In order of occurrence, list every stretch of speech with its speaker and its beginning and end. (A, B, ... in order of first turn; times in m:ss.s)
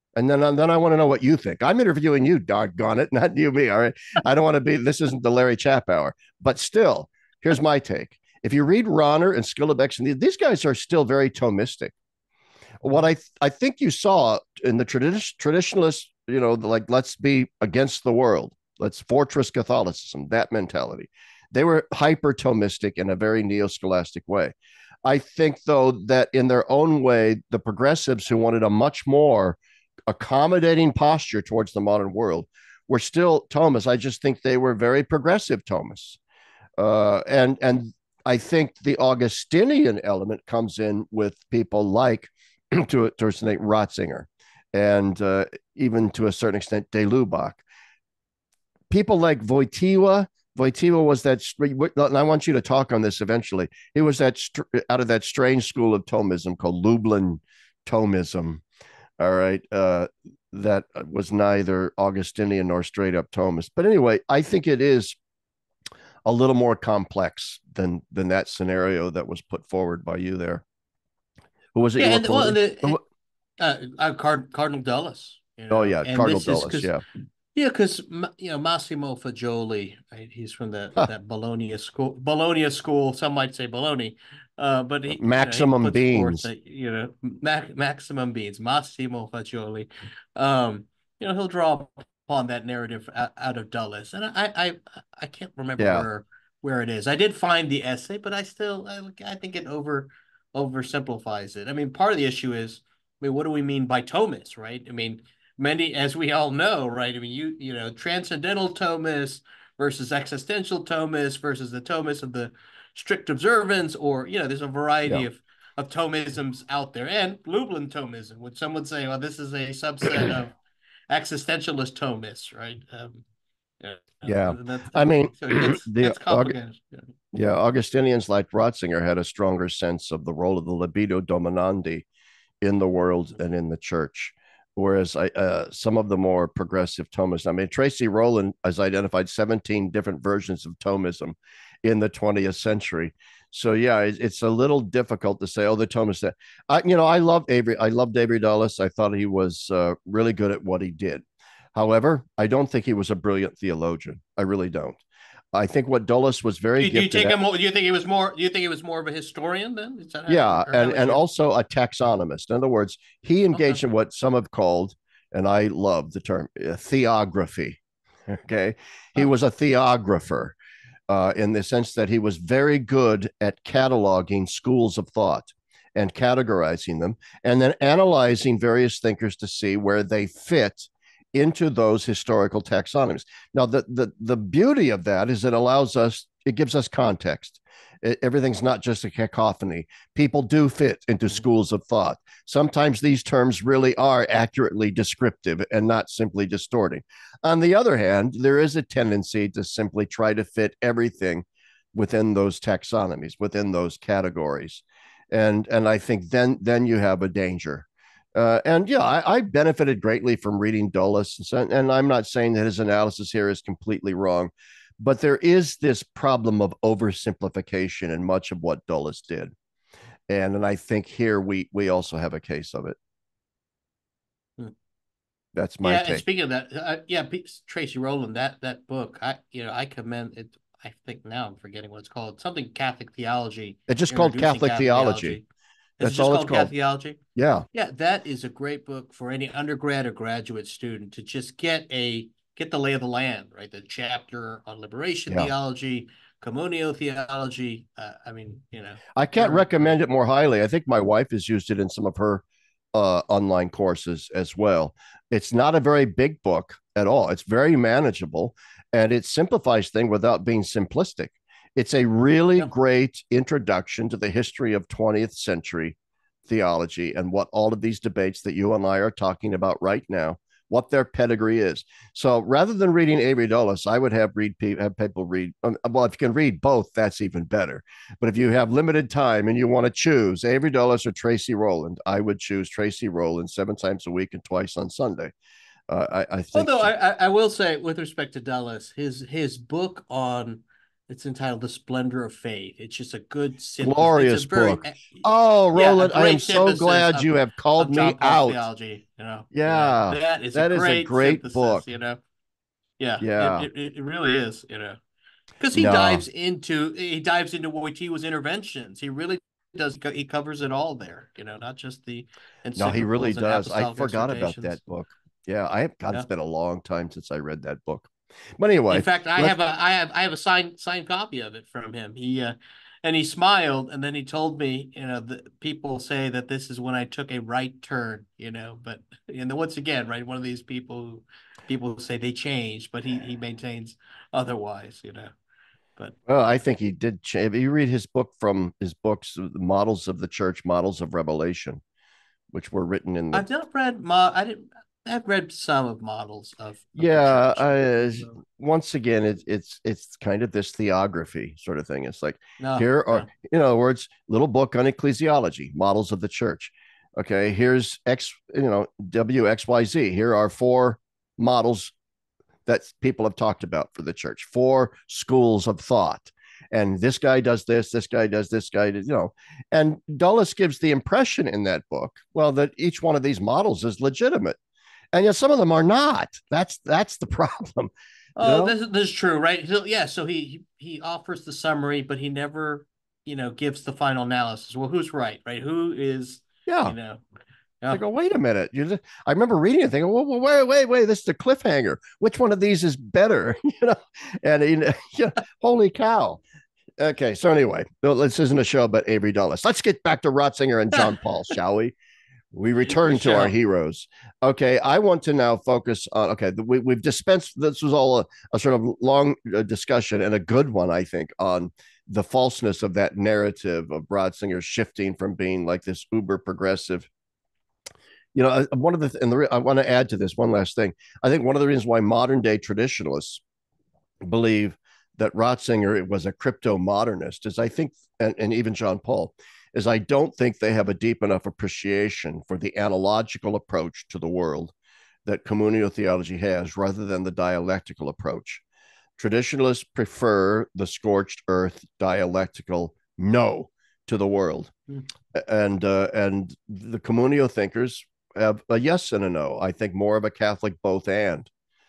0:00.2-0:11.9 A
0:12.8-0:24.5 A
0:25.0-0:36.2 A
0:36.8-0:47.6 A
0:48.9-0:58.6 A
0:59.2-1:05.2 A
1:06.2-1:10.6 A
1:11.7-1:13.0 A
1:12.0-1:13.0 B
1:13.6-1:16.9 B
1:15.7-1:17.0 A
1:17.5-2:00.5 B
1:25.1-1:26.5 A
1:35.8-1:36.1 A
2:01.1-2:03.2 B
2:03.8-2:07.0 B
2:04.2-2:06.5 A
2:07.3-2:12.0 A
2:12.6-2:31.2 A
2:31.7-2:35.0 A
2:35.5-2:37.3 A
2:36.8-2:41.2 B
2:40.3-2:50.6 A
2:43.5-2:43.8 B
2:51.1-3:39.5 A
3:40.3-3:43.0 A
3:45.5-3:46.2 A
3:45.8-3:55.4 B
3:53.9-3:55.4 A
3:56.0-3:57.2 B
3:56.0-3:56.7 A
3:57.4-3:57.6 A
3:57.7-4:09.8 B
4:09.1-4:45.3 A
4:45.9-4:46.9 A
4:46.5-5:02.2 B
4:53.8-4:58.6 A
4:59.5-5:01.8 A
5:03.0-5:05.0 B
5:03.2-5:03.7 A
5:05.6-5:14.8 B
5:05.7-5:06.2 A
5:12.8-5:19.5 A
5:18.9-5:35.3 B
5:36.3-5:41.8 A
5:42.5-5:43.4 A
5:43.3-5:48.4 B
5:47.0-6:01.9 A
5:52.6-5:53.3 B
6:02.6-6:14.6 A
6:15.1-6:18.7 A
6:18.4-6:27.2 B
6:26.6-6:27.0 A
6:27.9-6:36.4 A
6:37.0-6:41.9 A
6:42.5-6:57.1 A
6:42.9-6:43.5 B
6:58.3-7:03.4 A
7:04.2-7:14.7 A
7:15.2-7:18.6 A
7:19.2-7:24.7 A
7:25.3-7:31.5 A